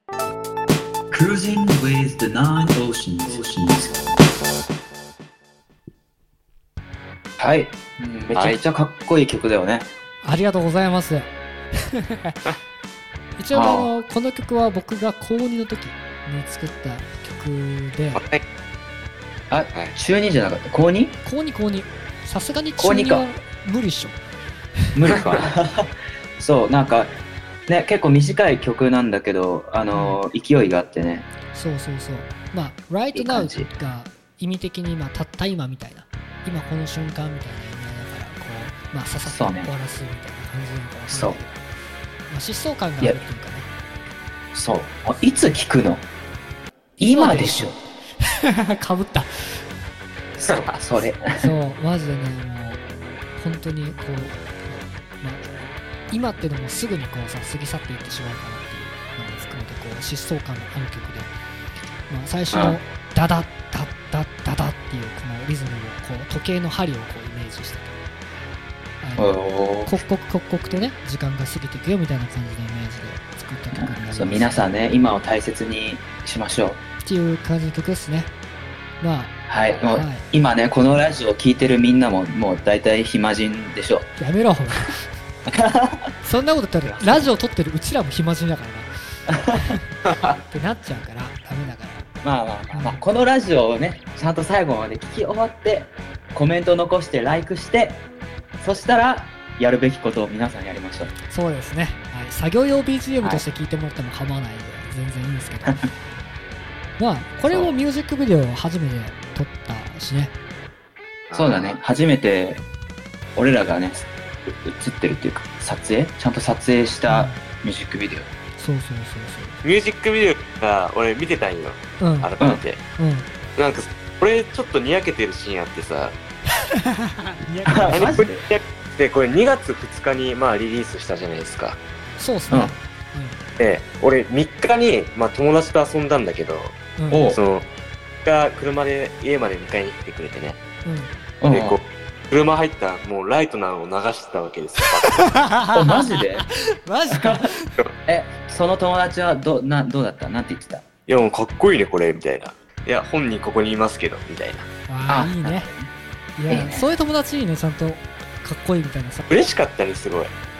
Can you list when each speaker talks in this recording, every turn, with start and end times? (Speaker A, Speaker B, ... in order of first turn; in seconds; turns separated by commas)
Speaker A: 1.1-4.1, Speaker A: 7.4-9.9, Speaker B: 10.2-12.4, Speaker B: 13.4-18.2, Speaker A: 13.5-13.9, Speaker C: 18.1-18.4, Speaker A: 19.5-21.1, Speaker B: 21.2-24.2, Speaker A: 22.8-23.2, Speaker A: 24.9-27.1, Speaker A: 27.7-31.3, Speaker B: 29.9-30.2, Speaker B: 31.5-41.6, Speaker A: 33.1-33.7, Speaker A: 39.2-39.7, Speaker A: 41.1-41.4, Speaker B: 42.3-43.7, Speaker A: 44.5-46.0, Speaker B: 47.0-49.6, Speaker A: 47.0-47.8, Speaker A: 50.4-51.5, Speaker B: 51.4-52.8, Speaker B: 53.4-55.5, Speaker B: 56.1-61.3, Speaker B: 62.1-68.0, Speaker A: 62.5-62.8, Speaker B: 69.0-74.7, Speaker A: 69.2-69.9, Speaker A: 73.7-76.8, Speaker B: 77.0-78.3, Speaker B: 79.0-79.3, Speaker A: 79.5-84.1, Speaker B: 79.9-80.2, Speaker B: 84.2-85.0, Speaker A: 85.5-86.1, Speaker B: 86.2-88.9, Speaker A: 89.3-89.8, Speaker B: 89.5-89.8, Speaker C: 90.1-90.3, Speaker B: 90.5-92.1, Speaker A: 92.2-98.0, Speaker B: 92.7-93.0, Speaker A: 98.6-101.1, Speaker B: 101.3-105.8, Speaker B: 107.0-110.3, Speaker C: 111.3-111.8, Speaker A: 111.3-112.6, Speaker A: 113.3-118.3, Speaker B: 117.1-117.4, Speaker B: 118.6-119.6, Speaker C: 119.6-122.8, Speaker B: 122.0-122.3, Speaker B: 123.0-123.3, Speaker C: 123.6-126.2, Speaker B: 126.6-128.2, Speaker A: 127.7-128.4, Speaker C: 127.9-131.8, Speaker B: 132.2-133.4, Speaker C: 133.6-136.8, Speaker B: 137.0-137.3, Speaker A: 137.1-137.4, Speaker C: 137.3-137.6, Speaker C: 138.2-140.6, Speaker B: 140.8-141.1, Speaker A: 141.4-141.8, Speaker C: 141.5-145.4, Speaker B: 145.1-147.7, Speaker A: 145.7-146.4, Speaker A: 147.1-147.4, Speaker A: 148.1-150.8, Speaker C: 151.1-154.7, Speaker B: 154.9-155.7, Speaker A: 155.1-155.9, Speaker B: 156.4-159.2, Speaker A: 156.5-156.9, Speaker C: 159.3-160.3